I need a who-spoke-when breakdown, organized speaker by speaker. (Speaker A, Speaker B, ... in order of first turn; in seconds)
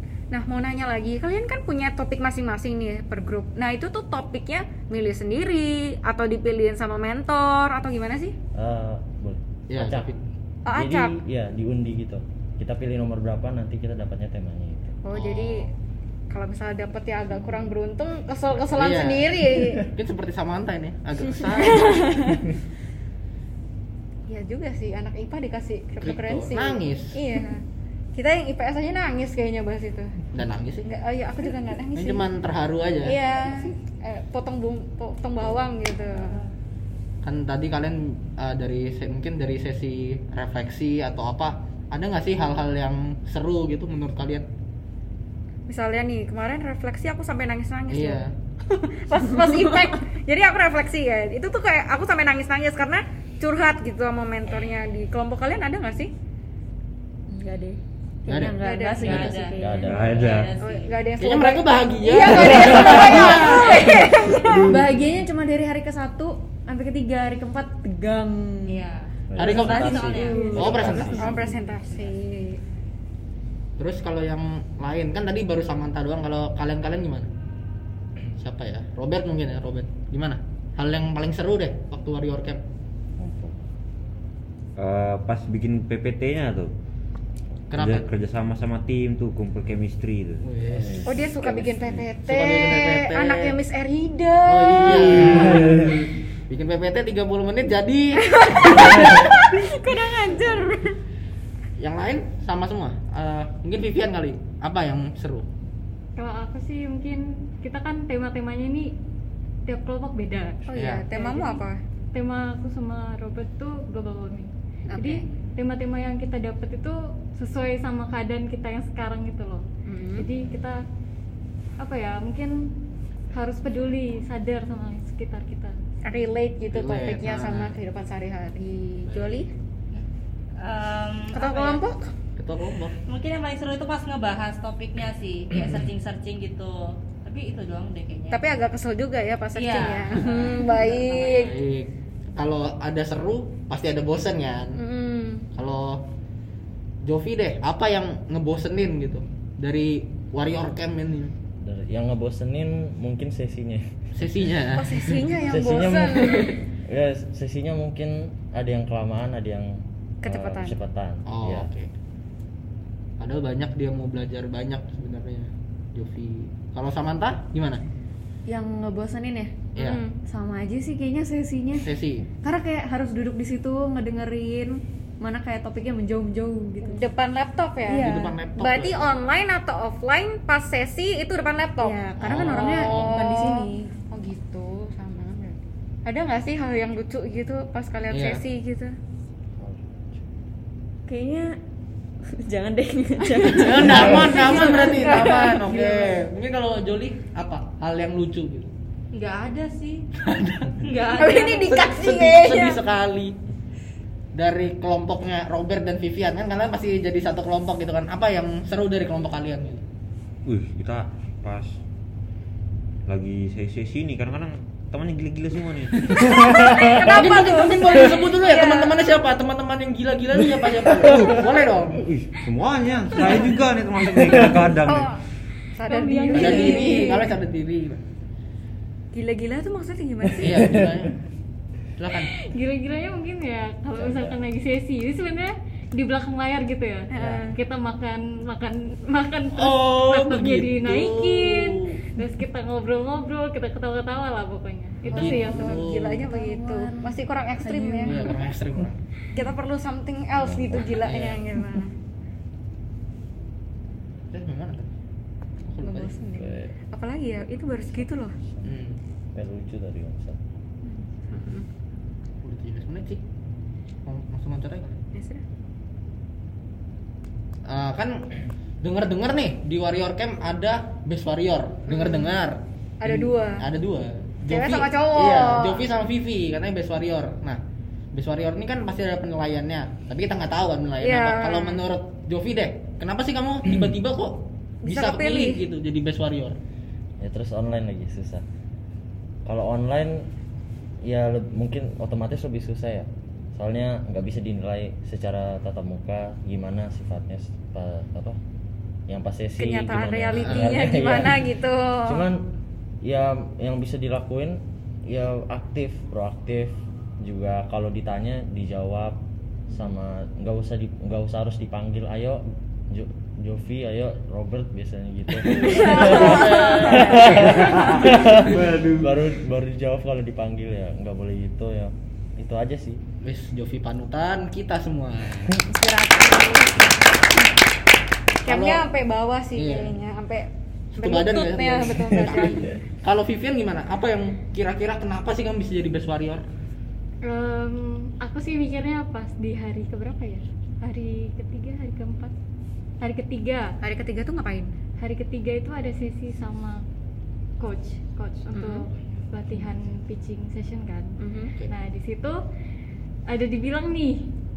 Speaker A: 0.3-8.3, 10.7-11.2, 15.0-15.7, 16.3-19.9, 21.6-22.4, 24.3-27.6, 28.1-30.1, 30.8-32.3, 33.0-36.4, 45.7-48.2, 48.9-56.1, 58.5-59.4, 60.6-62.3, 63.0-64.6, 70.4-72.6, 91.0-95.6, 98.3-101.0, 110.7-111.7, 114.9-115.2, 119.8-120.3, 126.0-129.5, 131.3-132.1, 138.3-141.6, 144.8-145.5, 154.7-156.5, 160.2-160.7, 169.8-170.2, 176.8-188.9, 193.3-196.1, 201.1-202.8, 216.6-219.2, 224.8-225.2, 225.8-227.3, 229.1-230.8, 237.1-237.5, 245.7-248.3, 249.3-251.9, 255.8-258.3, 260.9-261.6, 265.1-265.4, 271.9-272.4, 273.0-273.7, 274.4-275.9, 281.0-281.8, 284.8-285.6, 299.6-302.2, 315.6-316.1, 328.4-330.4, 331.0-332.8, 343.8-344.7, 348.5-348.8, 351.2-351.5
Speaker B: 8.5-10.1, 10.7-15.0, 59.6-60.5, 69.3-71.6, 83.2-83.6, 90.7-92.0, 151.6-153.9, 155.3-161.7, 189.6-190.2, 233.9-234.4, 250.4-251.0, 256.3-256.7, 257.7-258.7, 259.3-260.4, 287.2-288.4, 289.4-290.3, 291.0-298.4, 299.1-301.5, 302.0-302.4, 303.0-323.0
Speaker C: 9.7-10.2, 15.1-15.7, 18.7-22.1, 26.0-27.2, 30.3-30.9, 31.9-33.2, 37.2-44.4, 47.9-48.3, 58.3-58.6, 61.2-63.6, 69.4-71.3, 73.8-77.3, 78.4-82.6, 87.7-88.1, 90.4-91.0, 92.2-93.5, 94.5-98.2, 101.8-105.5, 110.8-111.0, 114.9-115.2, 126.7-127.8, 129.0-129.5, 132.4-132.9, 140.1-140.7, 141.4-144.8, 145.5-146.0, 147.0-151.3, 154.1-155.2, 161.2-161.9, 163.2-167.8, 169.8-170.0, 171.7-172.3, 178.0-179.1, 182.2-183.2, 188.1-188.4, 193.5-198.7, 200.2-200.8, 201.6-203.3, 204.3-209.8, 215.9-222.1, 226.3-228.0, 230.4-231.1, 232.0-232.3, 239.5-242.0, 245.1-246.2, 248.0-249.0, 251.0-251.4, 254.3-254.9, 255.7-256.2, 258.6-259.0, 262.4-263.2, 264.1-264.9, 267.6-268.2, 268.8-277.6, 278.1-286.6, 300.3-300.8, 315.5-317.4, 323.2-325.6, 328.4-328.9, 329.5-330.0, 331.0-336.4
Speaker D: 49.3-49.6, 57.3-60.0, 62.0-68.8, 70.1-70.5, 168.5-177.1, 177.8-178.4, 181.8-183.9, 191.1-191.6, 192.3-195.3, 245.1-248.6, 315.8-317.1, 325.6-326.7
Speaker E: 59.0-60.9, 68.7-70.9, 130.6-131.8, 133.1-138.4, 139.5-141.4, 199.1-200.0, 200.8-201.8
Speaker F: 59.8-60.5, 69.3-69.6, 84.8-86.7, 87.7-90.5, 210.4-211.7, 213.1-216.7, 222.0-225.1, 316.1-316.4, 317.3-319.1
Speaker G: 70.3-70.9, 106.2-108.9, 109.7-110.6, 111.1-119.6, 120.2-120.8, 121.8-122.7, 123.3-125.7, 225.9-227.2, 232.4-245.8, 337.2-342.3, 343.0-343.7, 345.0-346.8, 347.6-351.1, 351.7-352.4, 353.3-354.3